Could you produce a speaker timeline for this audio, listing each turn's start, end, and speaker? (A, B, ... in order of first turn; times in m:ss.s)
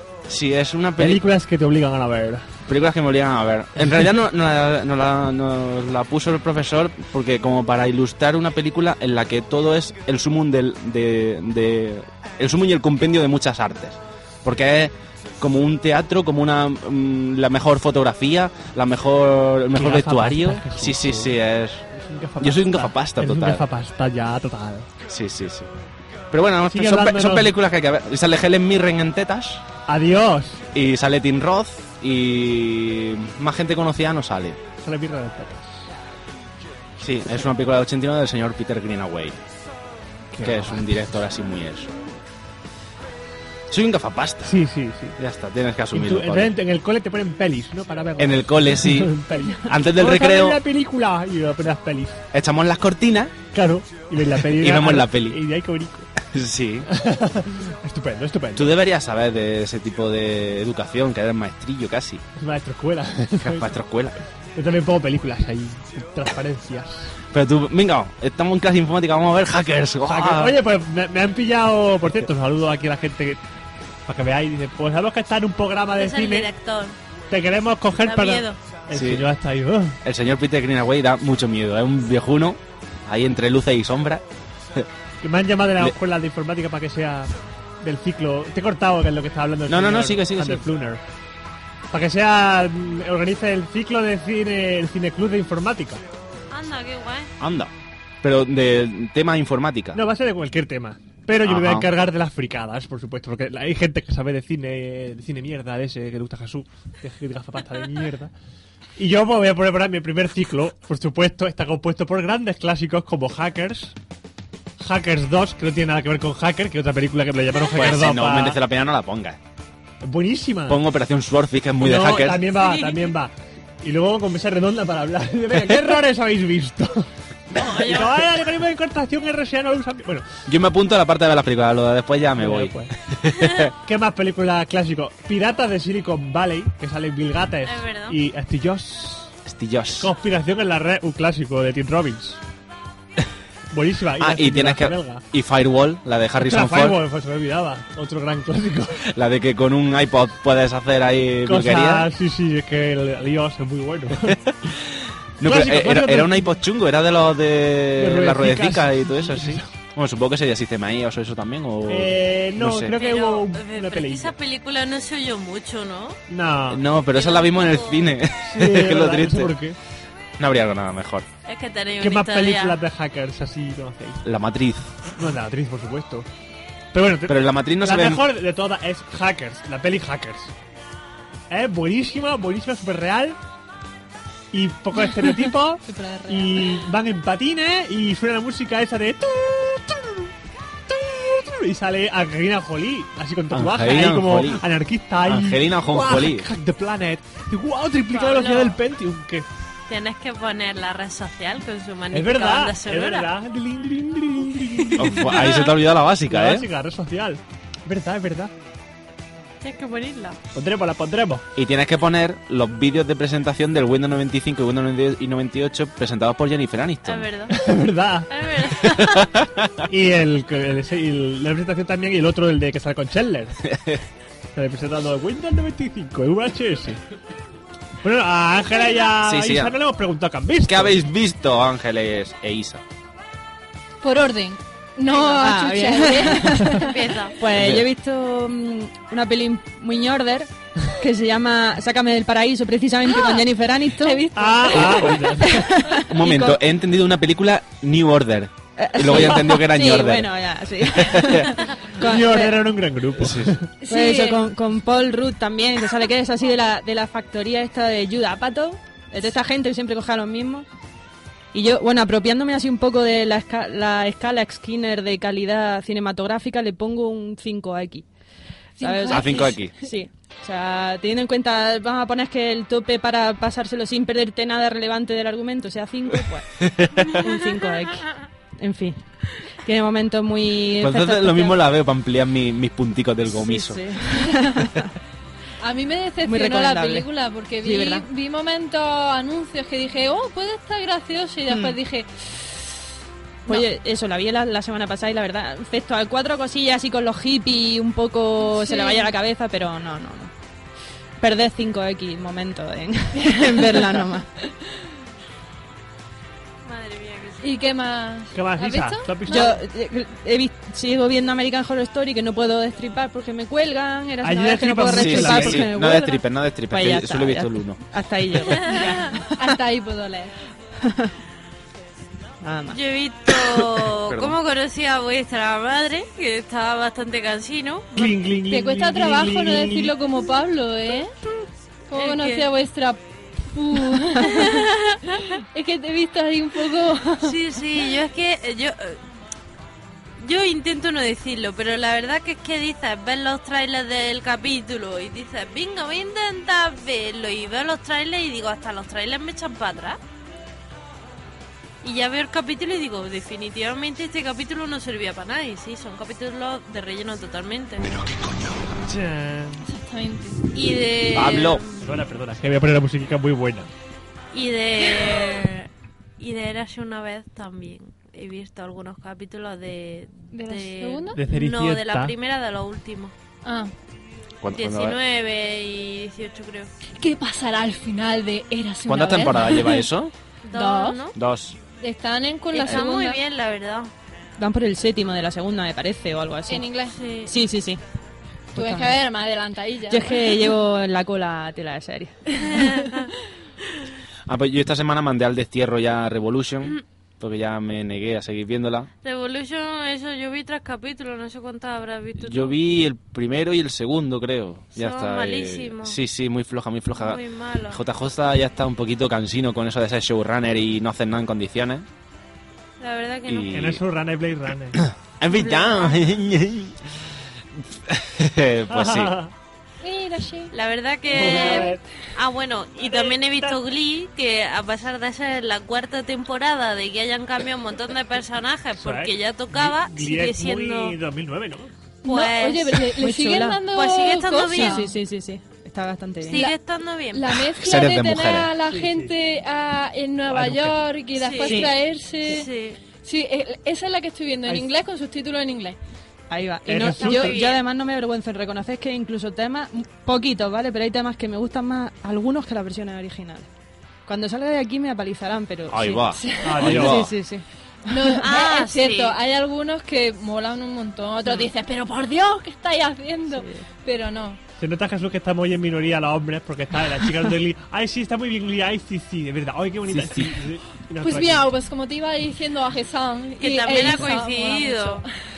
0:00.3-0:01.2 A
0:01.0-0:02.5 B
0:02.7-0:21.8 A
0:19.7-0:21.3 B
0:21.9-0:24.9 B
0:22.4-0:23.6 A
0:25.0-0:25.7 A
0:26.3-0:29.6 A
0:26.7-0:27.5 B
0:29.9-0:30.6 B
0:30.7-0:34.6 A
0:34.8-0:35.8 B
0:37.0-0:39.4 A
0:40.3-0:41.0 B
0:40.4-0:41.9 A
0:43.7-0:44.6 A
0:44.4-0:45.2 B
0:45.2-0:46.6 A
0:45.9-0:52.2 B
0:48.2-0:50.6 A
0:52.3-0:53.4 A
0:53.5-0:56.1 B
0:54.4-0:55.4 A
0:56.2-0:56.9 A
0:56.9-0:58.7 B
0:58.5-1:02.2 A
1:02.4-1:03.7 B
1:03.4-1:04.2 A
1:04.5-1:07.1 B
1:07.3-1:10.6 A
1:10.0-1:13.4 B
1:14.0-1:16.5 B
1:15.9-1:17.0 C
1:17.3-1:20.0 B
1:18.0-1:18.6 C
1:18.9-1:19.3 A
1:20.0-1:24.2 A
1:25.2-1:31.0 B
1:29.7-1:30.6 A
1:31.9-1:36.0 B
1:36.5-1:37.3 C
1:37.4-1:40.0 A
1:39.9-1:48.3 B
1:41.4-1:41.9 A
1:49.0-1:53.9 B
1:54.8-1:58.6 B
1:57.7-1:59.4 A
2:00.0-2:00.8 B
2:00.7-2:02.5 A
2:01.8-2:07.1 B
2:02.5-2:03.2 C
2:07.5-2:08.3 C
2:07.8-2:10.2 B
2:10.5-2:13.7 A
2:12.4-2:12.9 B
2:13.8-2:19.3 B
2:17.6-2:18.2 C
2:19.4-2:20.1 A
2:20.0-2:22.4 B
2:23.7-2:25.2 B
2:24.2-2:27.0 A
2:26.4-2:29.0 B
2:29.1-2:32.1 A
2:31.4-2:34.4 B
2:34.3-2:42.9 A
2:35.4-2:36.5 B
2:38.0-2:39.6 B
2:41.9-2:44.3 B
2:42.9-2:46.2 C
2:46.3-2:46.8 B
2:46.7-2:49.5 A
2:47.1-2:48.2 C
2:48.4-2:49.8 B
2:50.4-2:51.3 A
2:51.4-2:52.8 C
2:52.0-2:54.2 B
2:54.2-2:55.0 A
2:55.2-2:56.3 B
2:56.9-3:00.5 B
2:57.3-2:58.2 A
3:01.5-3:03.4 B
3:04.5-3:10.3 B
3:05.8-3:06.7 D
3:10.9-3:19.5 B
3:13.5-3:14.6 A
3:15.2-3:16.5 A
3:18.1-3:18.8 C
3:19.9-3:23.3 C
3:22.1-3:25.4 B
3:25.0-3:26.7 A
3:25.2-3:25.7 C
3:26.3-3:28.5 B
3:29.6-3:30.4 C
3:30.5-3:31.4 B
3:31.6-3:37.3 A
3:37.0-3:37.6 C
3:37.5-3:38.3 B
3:38.3-3:39.3 C
3:38.9-3:39.8 A
3:39.9-3:43.6 B
3:43.6-3:44.0 A
3:44.5-3:47.0 B
3:48.0-3:51.0 B
3:49.2-3:49.8 A
3:50.6-3:52.8 A
3:54.0-3:56.9 D
3:55.3-4:06.6 E
3:56.8-3:57.4 C
3:57.5-3:57.8 A
4:03.1-4:03.4 D
4:04.0-4:05.2 D
4:04.3-4:05.7 B
4:06.0-4:10.3 A
4:08.8-4:12.7 E
4:10.8-4:11.5 A
4:12.0-4:13.7 B
4:13.2-4:13.6 A
4:13.8-4:14.4 D
4:13.9-4:20.6 E
4:21.5-4:28.0 E
4:28.8-4:29.7 D
4:28.8-4:36.5 E
4:29.1-4:29.7 A
4:36.6-4:37.1 A
4:37.1-4:39.0 E
4:39.6-4:41.6 E
4:40.8-4:43.8 A
4:43.3-4:44.9 E
4:45.6-4:52.2 D
4:46.2-4:47.1 E
4:47.6-4:48.0 E
4:51.5-4:51.8 E
4:53.5-5:00.3 E
4:58.4-4:59.1 D
5:01.2-5:04.3 E
5:06.6-5:07.6 C
5:07.4-5:09.5 D
5:08.3-5:09.6 B
5:09.3-5:19.3 E
5:14.2-5:15.7 B
5:14.9-5:17.8 A
5:18.6-5:18.9 C
5:18.7-5:20.3 D
5:20.8-5:21.1 E
5:22.4-5:22.8 E
5:22.7-5:28.2 C
5:23.8-5:24.4 A
5:27.9-5:29.9 B
5:28.5-5:31.1 D
5:31.9-5:34.7 D
5:31.9-5:32.5 C
5:34.2-5:35.0 C
5:35.4-5:37.3 D
5:37.2-5:39.0 C
5:40.2-5:50.0 C
5:51.8-5:57.9 C
5:58.8-5:59.6 B
5:59.6-6:00.4 D
6:00.5-6:01.8 C
6:01.1-6:01.6 A
6:01.8-6:03.7 B
6:04.3-6:13.1 C
6:10.3-6:11.2 D
6:11.1-6:12.1 B
6:13.4-6:13.7 D
6:14.4-6:15.0 A
6:14.5-6:16.7 C
6:17.0-6:19.8 D
6:18.9-6:20.1 A
6:20.4-6:21.1 C
6:20.5-6:21.0 D
6:21.2-6:21.6 A
6:21.8-6:23.2 D
6:22.5-6:23.9 C
6:24.4-6:26.7 E
6:26.5-6:27.0 D
6:26.9-6:27.3 C
6:27.2-6:27.8 E
6:28.6-6:29.0 E
6:28.6-6:30.5 D
6:29.9-6:32.3 E
6:32.5-6:33.1 C
6:34.3-6:38.9 A
6:39.0-6:42.6 C
6:42.2-6:51.8 A
6:44.8-6:46.0 C
6:46.9-6:47.8 C
6:52.8-6:53.5 C
6:53.2-6:53.8 A
6:53.5-6:54.8 B
6:54.8-6:56.8 A
6:55.3-6:56.1 C
6:57.8-6:59.1 A
6:58.7-6:59.3 B
6:59.8-7:00.5 D
7:00.5-7:11.0 C
7:01.1-7:01.8 D
7:01.1-7:01.8 B
7:02.8-7:03.6 B
7:08.7-7:11.7 B
7:12.0-7:14.9 D
7:12.0-7:12.9 C
7:12.9-7:13.6 E
7:13.7-7:14.9 C
7:14.5-7:16.4 E
7:16.2-7:17.4 C
7:17.1-7:22.5 D
7:17.5-7:18.5 A
7:18.7-7:19.1 B
7:20.3-7:20.8 B
7:21.2-7:22.8 C
7:21.4-7:21.7 E
7:23.0-7:25.8 D
7:26.3-7:33.5 E
7:26.6-7:27.4 B
7:26.9-7:27.6 C
7:34.0-7:37.4 E
7:35.7-7:37.1 A
7:36.2-7:36.6 D
7:36.4-7:37.1 B
7:37.9-7:44.4 D
7:38.2-7:39.2 C
7:43.3-7:43.6 E
7:44.6-7:51.5 B
7:49.9-7:50.3 A
7:51.0-7:55.1 D
7:53.4-7:55.0 C